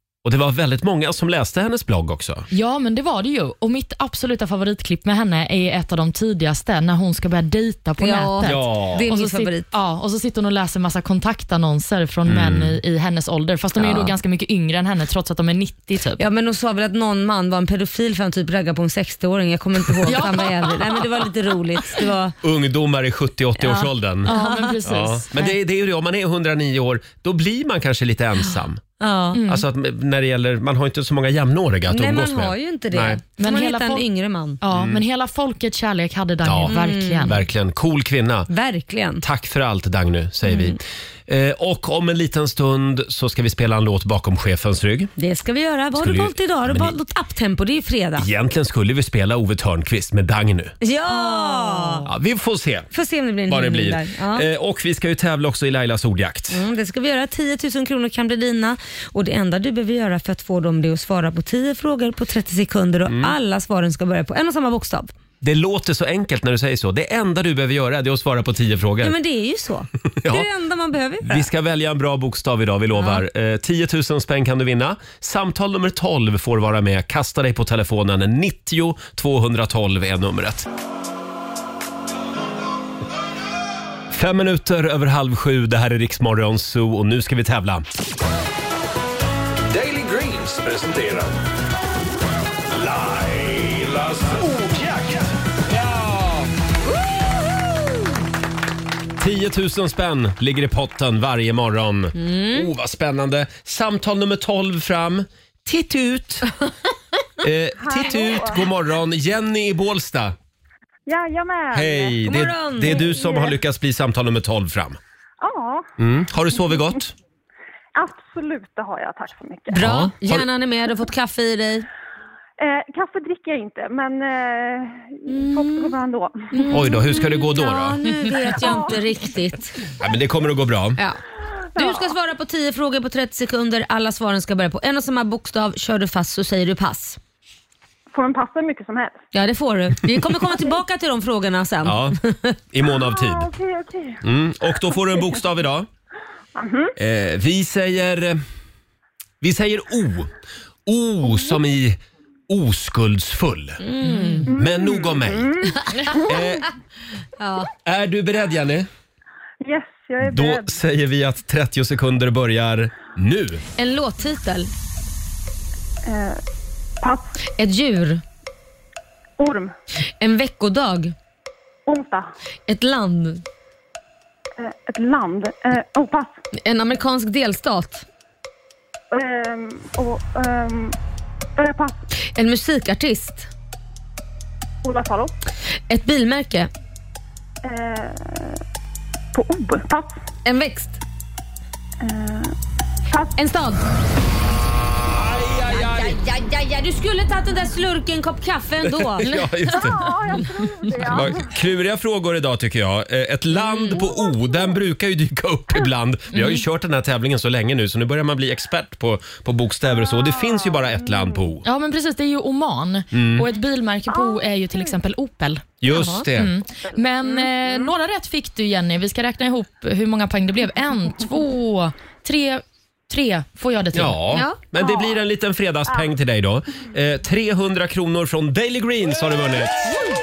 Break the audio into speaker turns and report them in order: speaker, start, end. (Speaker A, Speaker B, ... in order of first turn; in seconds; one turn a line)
Speaker A: 0.2-2.5
Speaker B: 2.5-16.2
Speaker C: 8.0-9.7
Speaker A: 8.4-9.1
Speaker A: 12.3-12.8
Speaker C: 13.8-14.1
Speaker C: 16.2-22.4
Speaker B: 20.1-20.7
Speaker A: 22.4-24.3
Speaker C: 23.6-24.7
Speaker B: 24.2-25.6
Speaker A: 24.8-28.8
Speaker C: 29.0-29.4
Speaker B: 29.3-29.6
Speaker A: 29.5-33.2
Speaker C: 31.9-34.6
Speaker B: 33.4-34.0
Speaker B: 34.6-37.4
Speaker A: 34.7-35.0
Speaker A: 36.4-38.5
Speaker C: 36.7-37.4
Speaker C: 38.5-39.2
Speaker A: 39.2-45.1
Speaker C: 40.5-40.8
Speaker C: 45.2-48.3
Speaker A: 46.0-46.9
Speaker A: 48.2-50.7
Speaker C: 50.8-52.0
Speaker B: 51.1-52.1
Speaker A: 52.0-52.9
Speaker C: 52.9-54.5
Speaker A: 53.5-56.6
Speaker C: 56.5-65.1
Speaker A: 63.0-63.3
Speaker A: 65.4-69.1
Speaker C: 69.0-71.5
Speaker A: 70.2-70.5
Speaker A: 71.2-80.7
Speaker C: 72.9-73.2
Speaker A: 84.1-87.8
Speaker D: 89.7-90.7
Speaker A: 90.3-91.3
Speaker D: 92.7-95.3
Speaker A: 99.2-106.5
Speaker C: 102.2-102.7
Speaker A: 107.4-110.3
Speaker E: 107.8-108.7
Speaker E: 111.0-113.5
Speaker A: 111.7-115.0
Speaker C: 112.3-113.1
Speaker E: 115.4-115.9
Speaker A: 116.0-117.1
Speaker E: 118.0-120.0
Speaker C: 119.7-121.9
Speaker A: 119.8-120.5
Speaker E: 122.6-126.8
Speaker C: 125.3-125.9
Speaker C: 126.5-129.8
Speaker A: 126.7-128.0
Speaker E: 128.6-128.9
Speaker A: 130.0-131.0
Speaker E: 131.8-132.0
Speaker C: 131.8-137.2
Speaker E: 138.1-139.2
Speaker C: 139.3-142.6
Speaker A: 141.8-142.2
Speaker A: 142.7-143.5
Speaker E: 142.9-144.2
Speaker A: 144.2-145.9
Speaker E: 144.9-145.3
Speaker E: 146.6-146.9
Speaker A: 147.0-148.4
Speaker A: 149.4-150.3
Speaker A: 150.8-153.8
Speaker C: 153.8-154.5
Speaker B: 154.0-154.4
Speaker E: 154.5-156.5
Speaker A: 154.5-155.5
Speaker C: 155.7-156.2
Speaker A: 156.2-156.7
Speaker C: 157.4-157.7
Speaker A: 157.8-158.9
Speaker E: 159.6-160.7
Speaker A: 160.2-163.6
Speaker C: 163.8-164.7
Speaker E: 166.0-166.4
Speaker E: 167.0-167.4
Speaker C: 167.5-168.2
Speaker E: 169.4-169.7
Speaker C: 170.2-171.1
Speaker E: 171.8-172.3
Speaker C: 172.7-173.4
Speaker E: 174.6-176.3
Speaker C: 176.6-178.1
Speaker E: 179.1-180.9
Speaker E: 181.6-182.0
Speaker C: 182.2-183.5
Speaker E: 184.8-185.3
Speaker C: 185.9-186.7
Speaker E: 187.6-188.6
Speaker E: 189.3-190.2
Speaker C: 190.4-191.0
Speaker E: 192.0-192.5
Speaker E: 193.1-193.3
Speaker C: 193.4-193.8
Speaker A: 195.1-196.2
Speaker C: 195.7-199.4
Speaker A: 198.8-200.1
Speaker E: 199.7-201.4
Speaker A: 201.0-211.6
Speaker E: 204.0-204.3
Speaker B: 206.3-206.6
Speaker E: 210.0-211.2
Speaker B: 211.6-215.6
Speaker A: 213.1-213.4
Speaker E: 214.1-214.4
Speaker A: 215.8-216.5
Speaker C: 215.9-216.2
Speaker B: 216.3-224.2
Speaker A: 223.9-229.9
Speaker C: 224.3-224.6
Speaker E: 224.8-225.2